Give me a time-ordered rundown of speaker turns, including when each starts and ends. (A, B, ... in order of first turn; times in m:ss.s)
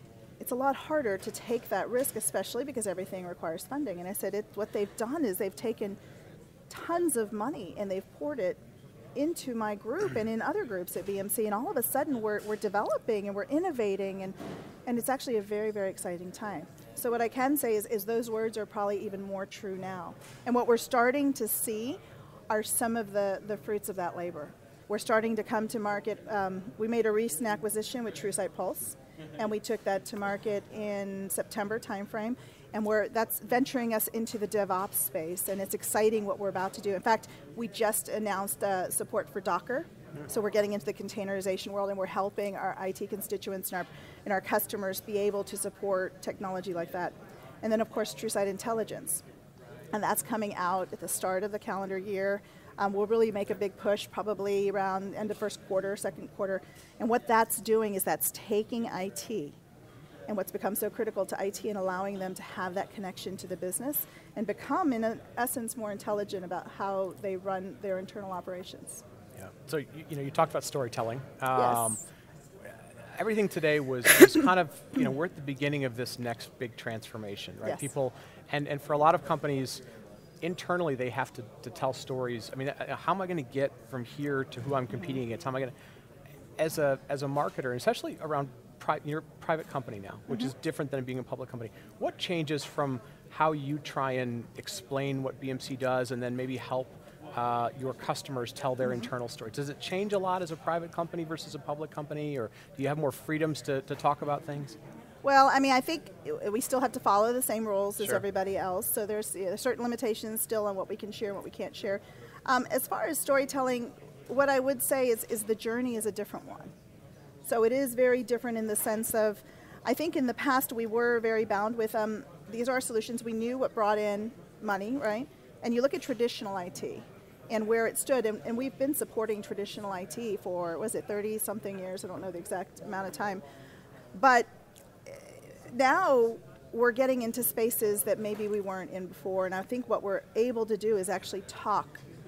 0:00.4-0:06.0 A
0:06.7-0:08.6 A
0:09.1-0:49.2 A
0:49.9-0:59.6 A
1:00.3-1:09.0 A
1:09.4-1:12.0 B
1:11.5-1:12.0 A
1:12.6-1:19.8 B
1:17.6-1:17.9 A
1:20.4-1:25.7 B
1:26.6-1:44.8 B
1:38.8-1:39.1 A
1:45.2-1:56.7 A
1:57.4-2:13.4 A
2:14.1-2:14.5 A
2:15.0-2:22.0 A